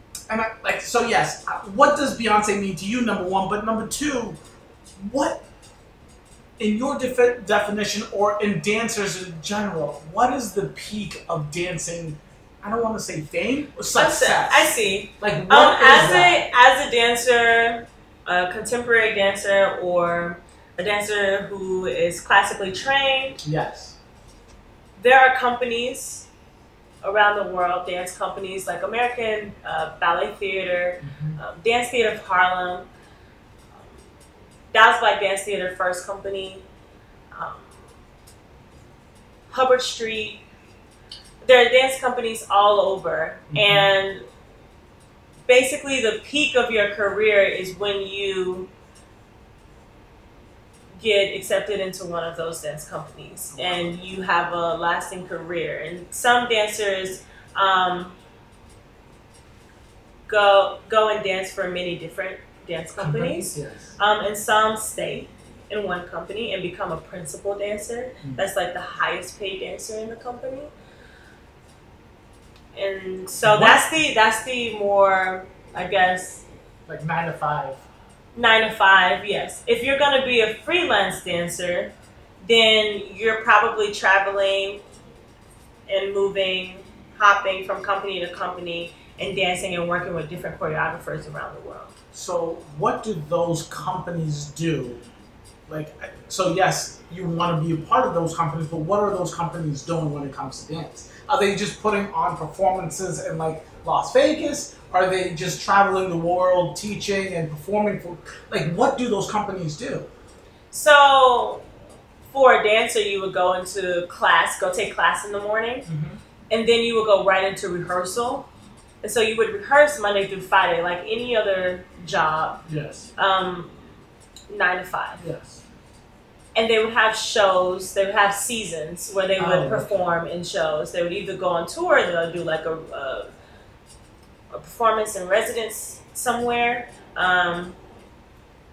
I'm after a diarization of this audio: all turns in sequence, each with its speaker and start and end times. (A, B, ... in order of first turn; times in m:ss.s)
0:00.3-0:04.4 A
0:05.0-0:05.4 A
0:06.6-0:16.4 A
0:14.0-0:23.4 B
0:23.4-0:24.0 A
0:25.0-0:26.3 B
0:27.0-0:32.9 B
0:31.0-0:31.4 A
0:33.7-0:34.0 B
0:34.7-0:36.6 B
0:37.3-0:37.8 B
0:39.5-0:40.4 B
0:41.4-0:44.2 B
0:43.5-0:43.9 A
0:45.5-0:48.7 B
0:51.0-0:58.2 B
0:53.5-0:54.0 A
1:00.3-1:10.7 B
1:03.0-1:03.9 A
1:12.7-1:16.4 B
1:13.4-1:13.9 A
1:16.9-1:17.8 A
1:18.4-1:21.9 B
1:22.4-1:24.8 B
1:25.9-1:31.9 B
1:32.1-1:35.0 A
1:35.7-1:50.1 A
1:50.7-1:51.6 B
1:52.3-1:55.9 B
1:55.9-1:56.2 A
1:56.5-1:58.5 B
1:59.0-2:03.8 B
2:02.7-2:03.1 A
2:04.5-2:05.2 B
2:05.2-2:05.6 A
2:06.6-2:13.3 B
2:09.4-2:10.0 A
2:14.5-2:17.8 B